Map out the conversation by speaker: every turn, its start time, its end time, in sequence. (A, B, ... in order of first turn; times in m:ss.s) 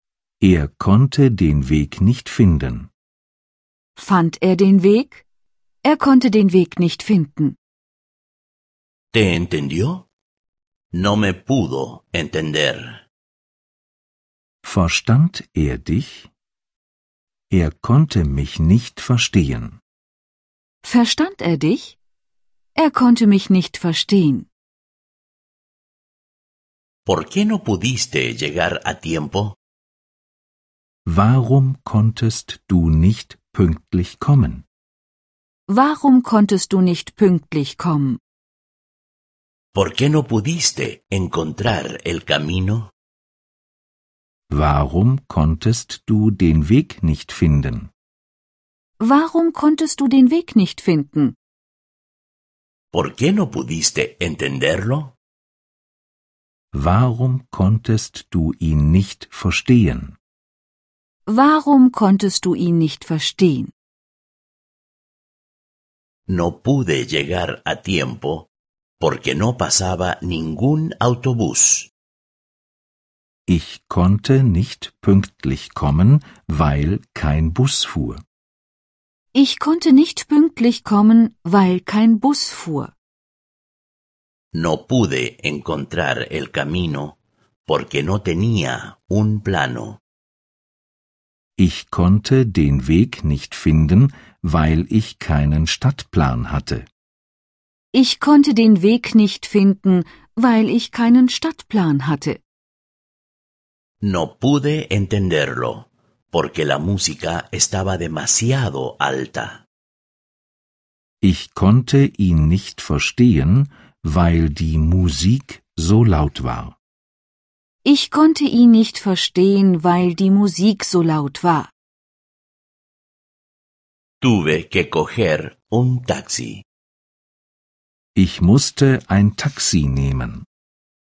0:00.4-0:02.9 A
0:04.0-0:05.2 B
0:05.8-0:07.6 B
0:09.1-0:10.0 C
0:10.9-0:13.0 C
0:14.6-0:16.3 A
0:17.5-0:19.8 A
0:20.8-0:22.0 B
0:22.8-0:24.5 B
0:27.1-0:29.6 C
0:31.0-0:34.6 A
0:35.7-0:38.2 B
0:39.7-0:42.9 C
0:44.5-0:47.9 A
0:49.0-0:51.4 B
0:52.9-0:55.1 C
0:56.7-1:00.2 A
1:01.3-1:03.7 B
1:06.3-1:08.5 C
1:09.0-1:11.9 C
1:13.5-1:18.2 A
1:19.3-1:22.9 B
1:24.6-1:27.2 C
1:27.7-1:30.0 C
1:31.6-1:36.9 A
1:37.9-1:42.4 B
1:44.0-1:49.6 C
1:51.2-1:56.8 A
1:57.8-2:01.7 B
2:04.2-2:06.6 C
2:08.2-2:10.5 A